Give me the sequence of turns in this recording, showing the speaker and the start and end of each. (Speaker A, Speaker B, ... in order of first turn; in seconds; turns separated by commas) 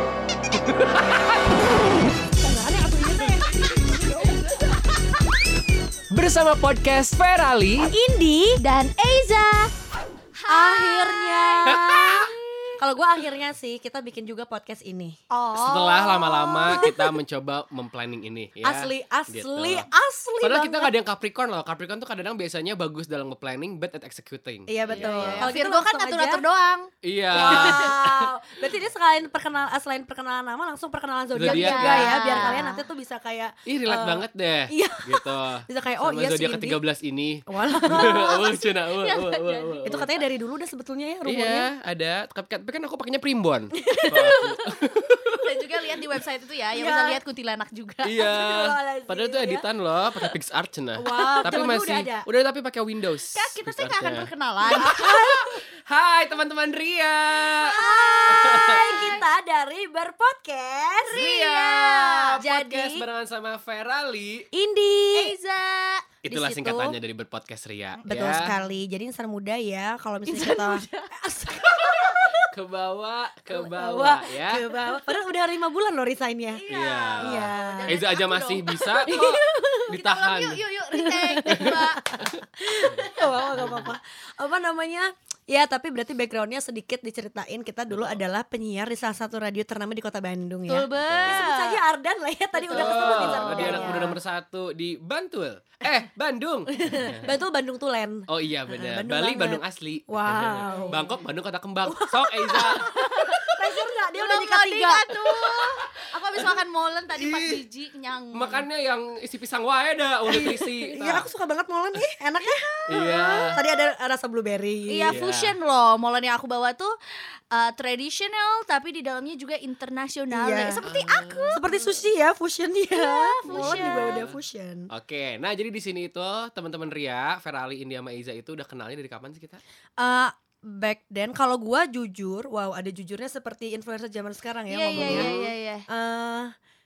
Speaker A: 0.5-1.7, Speaker B: 2.4-4.7, Speaker A: 6.1-7.9, Speaker B: 7.9-8.6, Speaker C: 8.6-9.7, Speaker C: 10.4-12.8, Speaker B: 10.5-15.2, Speaker A: 11.7-12.3, Speaker C: 15.3-16.9, Speaker A: 15.5-19.9, Speaker B: 16.7-17.0, Speaker B: 18.6-20.9, Speaker A: 20.4-25.5, Speaker B: 24.7-26.4, Speaker C: 24.9-27.9, Speaker A: 27.0-28.3, Speaker B: 27.3-36.8, Speaker A: 31.3-32.7, Speaker C: 31.4-32.9, Speaker A: 33.7-40.1, Speaker B: 37.5-38.4, Speaker C: 37.9-40.2, Speaker B: 39.8-41.7, Speaker A: 41.3-45.5, Speaker C: 45.4-48.2, Speaker B: 46.7-47.2, Speaker A: 48.0-59.2, Speaker B: 48.2-49.6, Speaker B: 51.0-52.3, Speaker C: 51.1-51.6, Speaker C: 53.3-55.2, Speaker B: 54.7-55.6, Speaker C: 57.5-59.3, Speaker B: 57.6-61.3, Speaker C: 61.1-62.9, Speaker A: 61.1-64.5, Speaker B: 62.3-63.0, Speaker B: 64.5-65.3, Speaker C: 65.1-66.1, Speaker A: 66.2-68.5, Speaker B: 66.2-67.0, Speaker C: 68.0-68.7, Speaker B: 68.0-72.5, Speaker C: 70.3-71.1, Speaker A: 72.5-74.7, Speaker B: 73.5-76.6, Speaker C: 76.5-82.0, Speaker A: 76.7-80.6, Speaker B: 77.2-78.0, Speaker B: 80.9-94.2, Speaker C: 83.0-83.5, Speaker A: 83.5-83.9, Speaker A: 87.9-88.2, Speaker C: 90.7-91.8, Speaker A: 91.0-91.5, Speaker C: 92.6-94.2, Speaker A: 92.7-97.3, Speaker B: 96.7-101.1, Speaker A: 98.3-102.9, Speaker C: 100.6-101.1, Speaker B: 101.8-105.7, Speaker C: 102.6-103.4, Speaker C: 104.2-108.7, Speaker A: 107.2-107.6, Speaker A: 108.3-111.3, Speaker B: 110.3-115.2, Speaker C: 112.6-113.6, Speaker A: 112.9-113.6, Speaker C: 114.9-117.0, Speaker A: 115.1-115.6, Speaker C: 117.5-121.7, Speaker B: 120.3-120.8, Speaker A: 120.8-121.7, Speaker B: 121.5-124.9, Speaker C: 122.9-124.3, Speaker A: 123.5-124.4, Speaker A: 124.9-129.6, Speaker B: 130.0-135.4, Speaker C: 134.7-135.8, Speaker A: 134.9-135.5, Speaker B: 135.9-136.5